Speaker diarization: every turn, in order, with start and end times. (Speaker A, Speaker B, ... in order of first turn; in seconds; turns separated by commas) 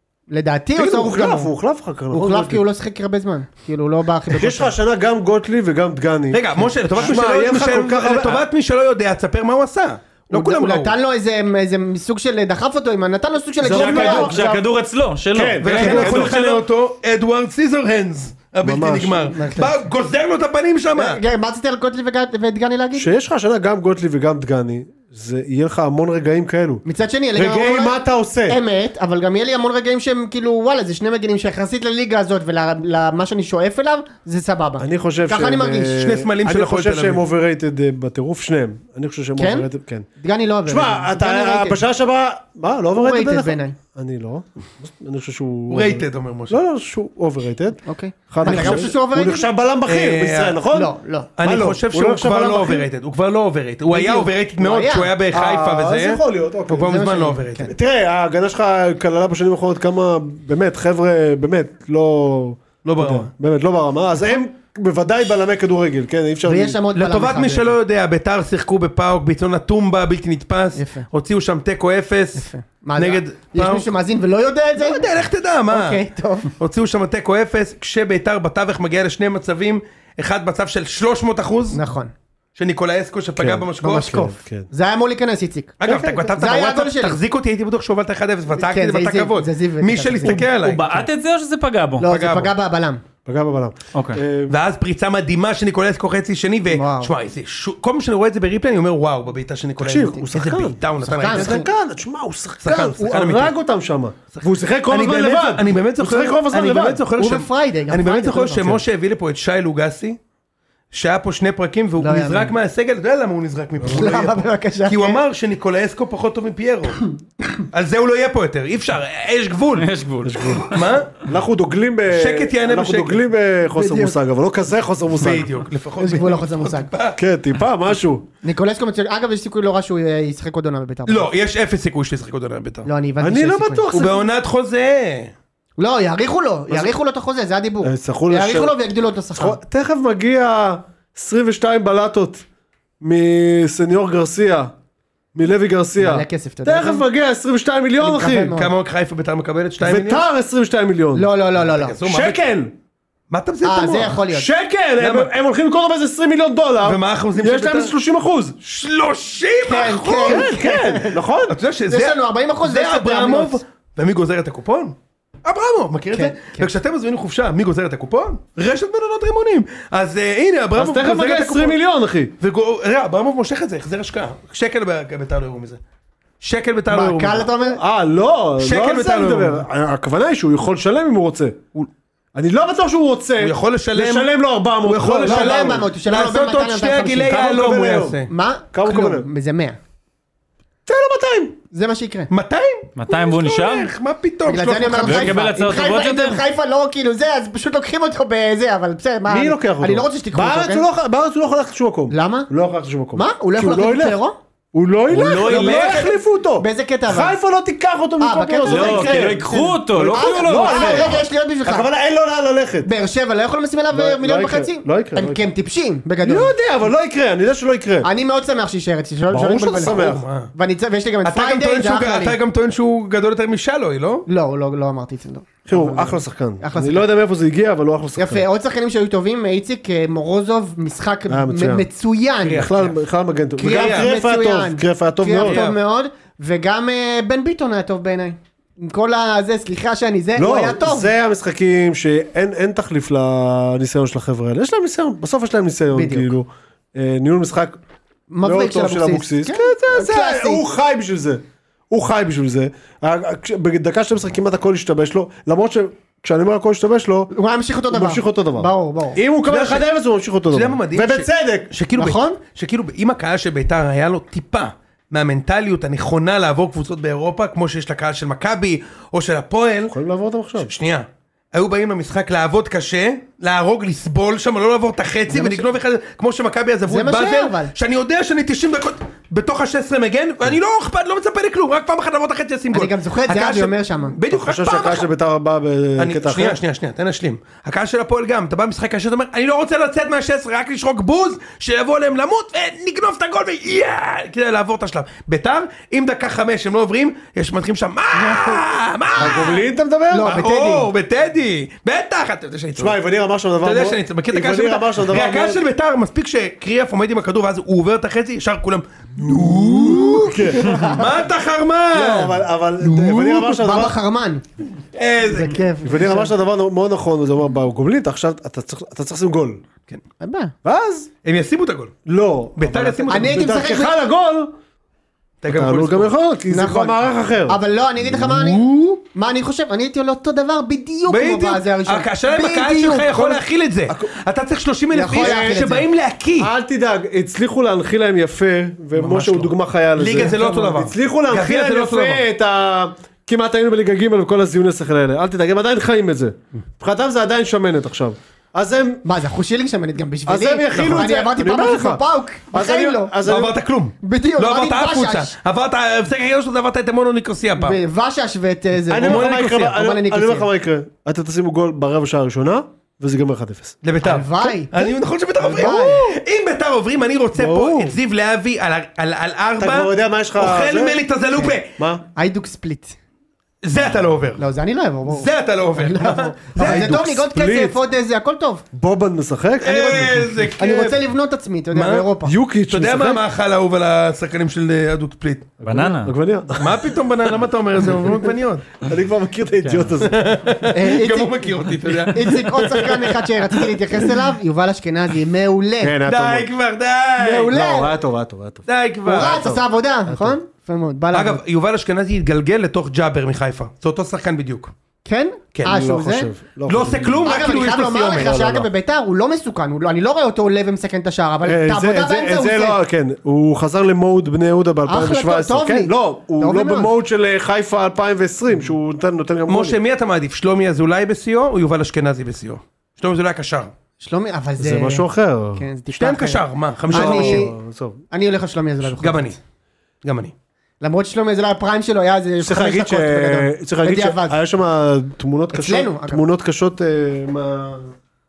Speaker A: 0.3-1.5, Speaker B: 0.8-2.6, Speaker A: 2.1-4.8, Speaker B: 4.3-8.4, Speaker C: 6.3-10.9, Speaker A: 10.3-14.4, Speaker B: 13.6-14.6, Speaker D: 13.6-16.4, Speaker B: 15.3-16.6, Speaker C: 15.6-21.2, Speaker B: 18.6-19.3, Speaker A: 19.3-19.8, Speaker A: 20.9-23.1, Speaker B: 23.0-26.8, Speaker A: 26.9-36.0, Speaker B: 27.4-28.6, Speaker B: 34.8-40.1, Speaker C: 36.0-37.2, Speaker A: 39.4-39.7, Speaker A: 40.2-41.8, Speaker B: 40.7-52.9, Speaker A: 43.0-43.8, Speaker C: 45.7-46.6, Speaker A: 47.9-49.5, Speaker C: 48.4-48.9, Speaker C: 49.9-50.6, Speaker A: 50.7-51.3, Speaker C: 51.4-57.7, Speaker A: 53.9-55.1, Speaker B: 55.3-57.0, Speaker A: 56.7-57.7, Speaker B: 57.7-66.8, Speaker C: 62.8-63.3, Speaker A: 66.5-67.7, Speaker C: 66.9-72.5, Speaker A: 70.8-71.1, Speaker A: 72.3-75.1, Speaker C: 73.0-73.9, Speaker C: 74.8-76.0, Speaker A: 75.7-76.5, Speaker C: 76.6-81.8, Speaker A: 81.7-82.1, Speaker C: 82.6-84.2, Speaker B: 83.4-84.7, Speaker A: 83.8-87.2, Speaker C: 85.8-91.1, Speaker B: 85.9-86.2, Speaker A: 88.6-90.5, Speaker D: 90.2-92.1, Speaker A: 92.0-93.0, Speaker C: 92.0-92.5, Speaker B: 93.3-94.5, Speaker D: 93.9-94.2, Speaker C: 94.5-101.7, Speaker A: 96.7-97.1, Speaker B: 99.8-107.0, Speaker A: 101.0-101.7, Speaker C: 102.6-103.5, Speaker C: 104.3-110.2, Speaker A: 107.2-108.8, Speaker C: 110.9-117.1, Speaker A: 112.0-112.5, Speaker A: 113.8-115.2, Speaker C: 117.7-119.9, Speaker D: 119.8-120.9, Speaker B: 120.2-120.7, Speaker C: 120.7-121.1, Speaker B: 121.2-125.5, Speaker C: 122.1-123.2, Speaker A: 123.7-124.2, Speaker C: 125.2-127.2, Speaker A: 126.0-126.9, Speaker B: 127.2-128.3, Speaker A: 128.4-131.3, Speaker C: 131.1-132.9, Speaker A: 132.8-134.1, Speaker B: 133.2-134.3, Speaker C: 133.9-135.3, Speaker A: 135.8-139.6, Speaker B: 137.8-138.8, Speaker B: 139.3-142.4, Speaker B: 143.0-144.7, Speaker B: 145.3-148.6, Speaker A: 146.0-147.1, Speaker A: 148.0-148.7, Speaker C: 148.5-150.2, Speaker B: 149.8-151.3, Speaker A: 151.2-152.0, Speaker C: 151.6-152.4, Speaker B: 152.1-152.7, Speaker C: 153.3-154.2, Speaker A: 153.6-154.5, Speaker B: 154.3-158.6, Speaker C: 155.0-155.3, Speaker C: 156.8-157.9, Speaker C: 158.6-160.6, Speaker A: 159.6-161.2, Speaker B: 160.2-161.6, Speaker C: 161.5-171.8, Speaker A: 161.9-163.6, Speaker A: 166.1-166.7, Speaker B: 170.8-172.3, Speaker C: 172.4-175.8, Speaker C: 176.4-177.5, Speaker A: 176.9-177.8, Speaker B: 177.7-181.6, Speaker C: 178.6-179.6, Speaker B: 182.3-185.8, Speaker C: 183.4-184.3, Speaker C: 184.8-188.3, Speaker A: 185.2-187.7, Speaker B: 187.3-189.3, Speaker A: 188.3-189.8, Speaker B: 190.9-191.6, Speaker A: 191.7-192.3, Speaker C: 192.3-195.4, Speaker D: 193.0-193.9, Speaker A: 194.5-200.9, Speaker D: 195.0-196.4, Speaker B: 199.3-204.2, Speaker A: 202.1-202.5, Speaker A: 203.2-204.4, Speaker B: 204.7-212.9, Speaker D: 205.1-206.1, Speaker A: 205.2-207.4, Speaker A: 208.2-211.9, Speaker D: 208.7-211.2, Speaker A: 212.8-216.5, Speaker B: 213.9-215.4, Speaker B: 216.2-218.1, Speaker A: 218.0-222.4, Speaker B: 219.3-220.2, Speaker C: 219.8-220.5, Speaker C: 221.2-224.3, Speaker A: 224.3-227.1, Speaker B: 225.7-228.4, Speaker A: 228.2-232.7, Speaker B: 231.3-231.9, Speaker C: 232.4-233.0, Speaker B: 232.5-235.6, Speaker A: 233.6-241.1, Speaker C: 233.6-234.1, Speaker C: 235.4-235.8, Speaker B: 240.4-247.8, Speaker A: 245.9-246.3, Speaker A: 248.3-250.6, Speaker B: 248.4-257.3, Speaker A: 257.3-259.2, Speaker B: 257.9-261.7, Speaker C: 259.5-259.9, Speaker C: 260.5-269.9, Speaker A: 262.0-262.4, Speaker B: 269.9-270.7, Speaker C: 270.6-285.1, Speaker A: 275.3-275.7, Speaker A: 276.9-277.7, Speaker A: 282.7-284.2, Speaker B: 284.3-286.6, Speaker C: 286.0-299.6, Speaker A: 298.2-298.6, Speaker B: 299.2-300.3, Speaker A: 300.1-300.9, Speaker C: 300.2-303.0, Speaker B: 302.8-305.6, Speaker C: 303.6-313.4, Speaker B: 309.2-311.0, Speaker A: 310.6-311.0, Speaker B: 311.9-314.0, Speaker A: 313.3-314.4, Speaker C: 314.9-315.6, Speaker A: 315.3-316.3, Speaker B: 315.8-319.6, Speaker A: 320.2-320.5, Speaker B: 320.6-321.1, Speaker C: 321.2-321.9, Speaker B: 322.1-324.5, Speaker C: 322.6-323.4, Speaker A: 323.1-324.0, Speaker C: 325.4-326.1, Speaker B: 325.5-328.4, Speaker A: 326.5-333.4, Speaker C: 328.2-329.0, Speaker C: 331.1-336.5, Speaker A: 334.9-335.9, Speaker B: 335.1-335.7, Speaker B: 336.4-349.0, Speaker C: 338.9-342.2, Speaker A: 340.1-340.8, Speaker A: 349.0-353.2, Speaker B: 350.3-353.6, Speaker C: 353.2-357.8, Speaker A: 354.0-355.4, Speaker A: 357.6-360.5, Speaker B: 358.9-363.8, Speaker C: 358.9-359.8, Speaker C: 363.8-371.7, Speaker A: 364.0-366.1, Speaker B: 365.4-366.0, Speaker B: 367.4-368.0, Speaker B: 369.6-371.0, Speaker B: 371.8-372.0, Speaker A: 372.2-373.0, Speaker C: 373.6-374.5, Speaker A: 374.4-378.6, Speaker C: 375.1-377.1, Speaker B: 376.6-377.8, Speaker B: 378.7-380.3, Speaker C: 379.6-381.0, Speaker A: 379.7-382.4, Speaker C: 381.7-382.1, Speaker B: 382.2-383.2, Speaker C: 382.7-385.5, Speaker B: 385.6-386.9, Speaker D: 385.6-386.1, Speaker C: 386.6-388.7, Speaker B: 388.8-390.4, Speaker C: 390.0-393.5, Speaker A: 390.7-391.5, Speaker A: 392.1-396.0, Speaker B: 395.8-396.5, Speaker C: 396.1-397.5, Speaker A: 397.2-398.0, Speaker B: 397.4-400.4, Speaker C: 398.7-399.4, Speaker A: 399.1-401.4, Speaker C: 401.1-404.7, Speaker A: 405.1-406.3, Speaker B: 405.6-407.6, Speaker C: 406.7-408.6, Speaker A: 407.2-412.8, Speaker B: 408.1-408.6, Speaker B: 411.4-419.8, Speaker A: 414.9-416.9, Speaker C: 419.5-423.7, Speaker A: 424.0-427.6, Speaker B: 424.6-425.7, Speaker C: 425.9-427.5, Speaker B: 426.9-428.0, Speaker A: 428.1-429.3, Speaker C: 429.0-429.4, Speaker C: 430.0-430.3, Speaker A: 430.8-434.4, Speaker B: 432.4-437.9, Speaker A: 435.5-436.2